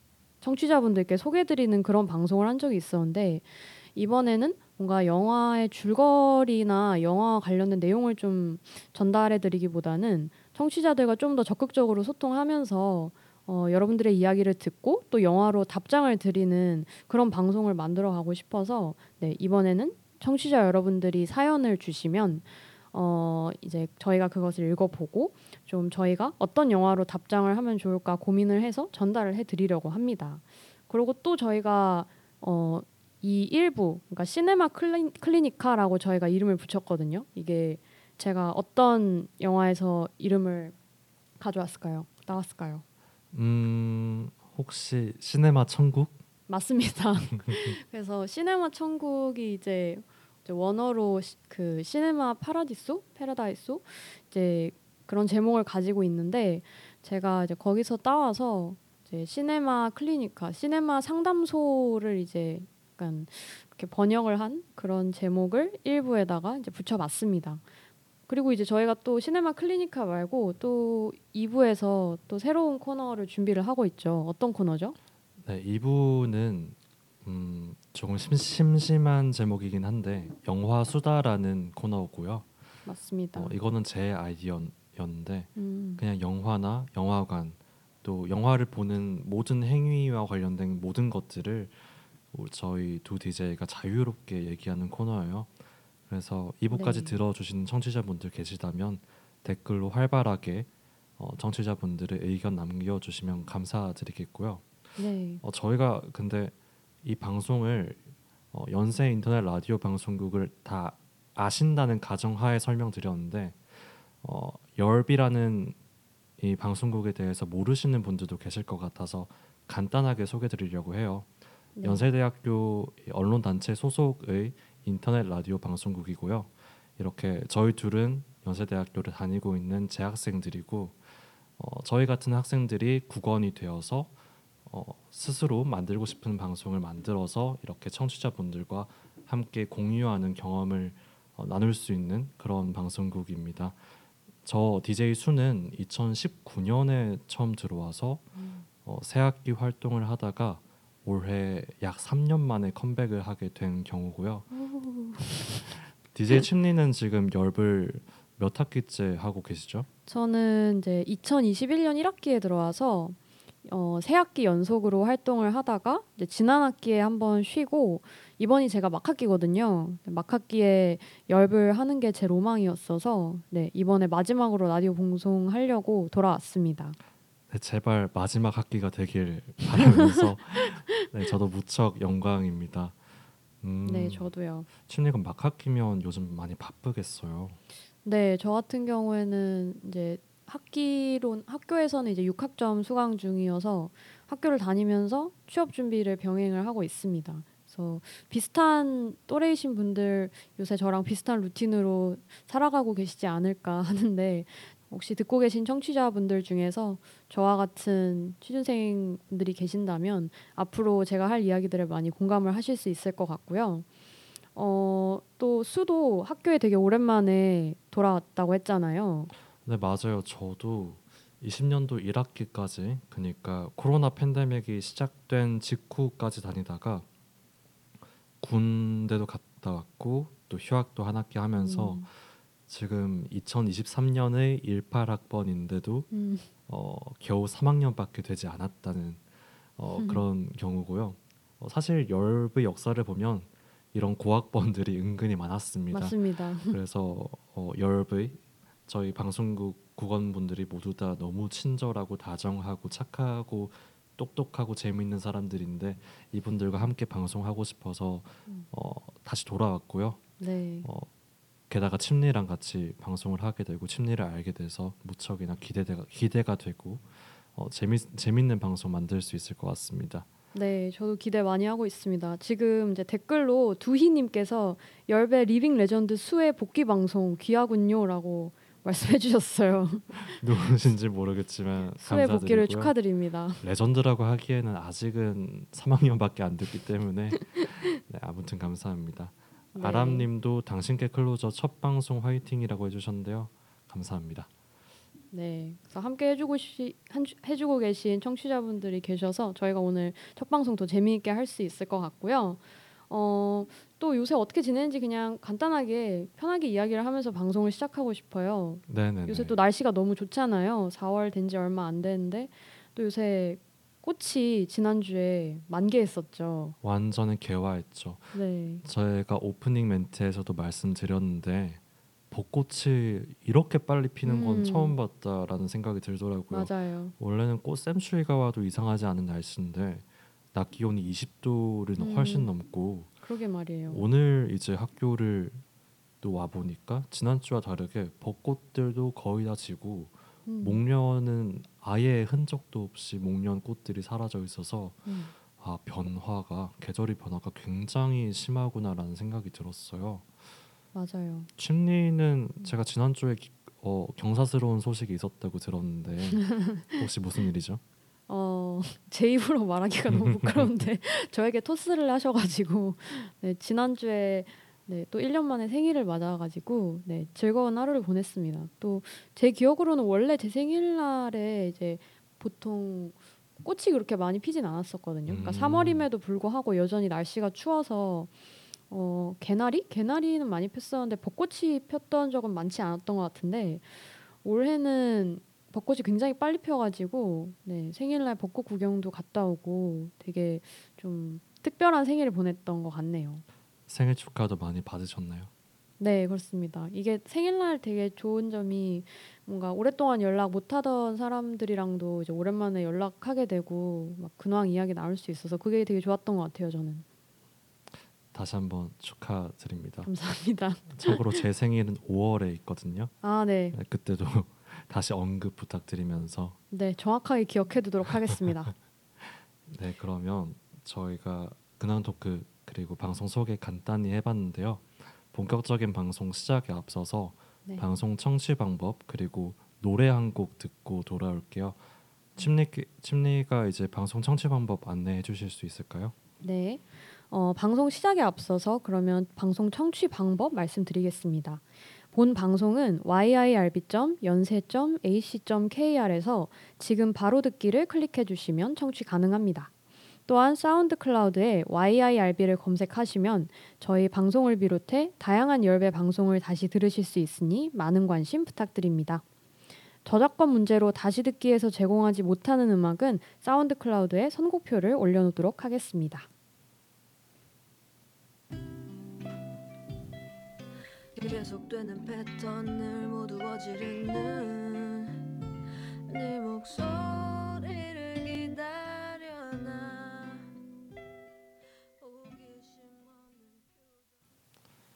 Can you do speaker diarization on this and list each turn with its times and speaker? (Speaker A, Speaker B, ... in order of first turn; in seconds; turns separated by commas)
Speaker A: 0.4-40.8, Speaker A: 41.4-42.8, Speaker B: 43.3-46.2, Speaker A: 46.5-67.6, Speaker B: 47.5-47.7, Speaker A: 68.3-75.0, Speaker B: 75.4-82.5, Speaker A: 82.9-83.5, Speaker B: 83.3-91.8, Speaker A: 85.6-86.0, Speaker B: 92.3-95.5, Speaker B: 96.1-104.7, Speaker A: 96.7-97.2, Speaker A: 105.0-105.4, Speaker B: 105.4-108.0, Speaker B: 108.5-113.6, Speaker B: 114.2-115.8, Speaker B: 116.4-121.3, Speaker A: 121.8-122.1, Speaker B: 121.8-131.0, Speaker B: 131.6-134.1, Speaker B: 134.7-143.8, Speaker B: 144.4-148.3, Speaker A: 148.4-148.7, Speaker B: 148.8-154.5, Speaker A: 154.5-155.8, Speaker B: 155.6-159.9, Speaker A: 160.1-177.0, Speaker B: 177.5-183.0, Speaker A: 179.8-180.3, Speaker B: 183.6-184.3, Speaker A: 183.8-184.7, Speaker B: 184.8-187.6, Speaker A: 188.0-213.9, Speaker A: 214.6-219.3, Speaker B: 219.7-227.1, Speaker B: 228.4-232.1, Speaker A: 231.6-232.1, Speaker B: 232.7-236.1, Speaker A: 236.1-236.5, Speaker B: 236.7-239.2, Speaker B: 239.8-246.2, Speaker A: 239.9-240.2, Speaker A: 245.9-246.8, Speaker B: 246.7-260.2, Speaker A: 260.4-260.9, Speaker B: 260.8-261.1, Speaker B: 261.7-270.3, Speaker A: 270.5-280.4, Speaker B: 280.3-282.9, Speaker A: 282.0-283.6, Speaker B: 283.6-294.5, Speaker A: 287.4-287.7, Speaker A: 289.8-290.3, Speaker A: 295.3-316.8, Speaker B: 308.9-309.6, Speaker B: 316.8-321.8, Speaker A: 318.3-318.8, Speaker B: 322.3-333.1, Speaker A: 324.2-324.9, Speaker A: 326.5-327.1, Speaker A: 332.0-332.5, Speaker A: 333.2-334.0, Speaker B: 333.9-335.6, Speaker B: 336.2-350.3, Speaker A: 340.5-340.8, Speaker A: 345.1-345.3, Speaker A: 350.9-351.5, Speaker B: 351.6-357.8, Speaker A: 356.5-357.0, Speaker A: 358.3-378.3, Speaker B: 360.2-360.7, Speaker B: 375.3-376.1, Speaker A: 378.9-393.4, Speaker B: 393.9-395.5, Speaker A: 396.0-407.1, Speaker B: 408.3-410.1, Speaker A: 410.0-411.4, Speaker B: 410.9-413.1, Speaker A: 413.2-413.8, Speaker B: 413.7-416.6, Speaker A: 416.7-418.7, Speaker B: 419.2-431.8, Speaker B: 432.4-436.1, Speaker A: 436.4-449.7, Speaker A: 450.3-459.2, Speaker A: 460.0-466.3, Speaker C: 471.2-475.2, Speaker C: 476.1-480.5, Speaker C: 482.0-484.0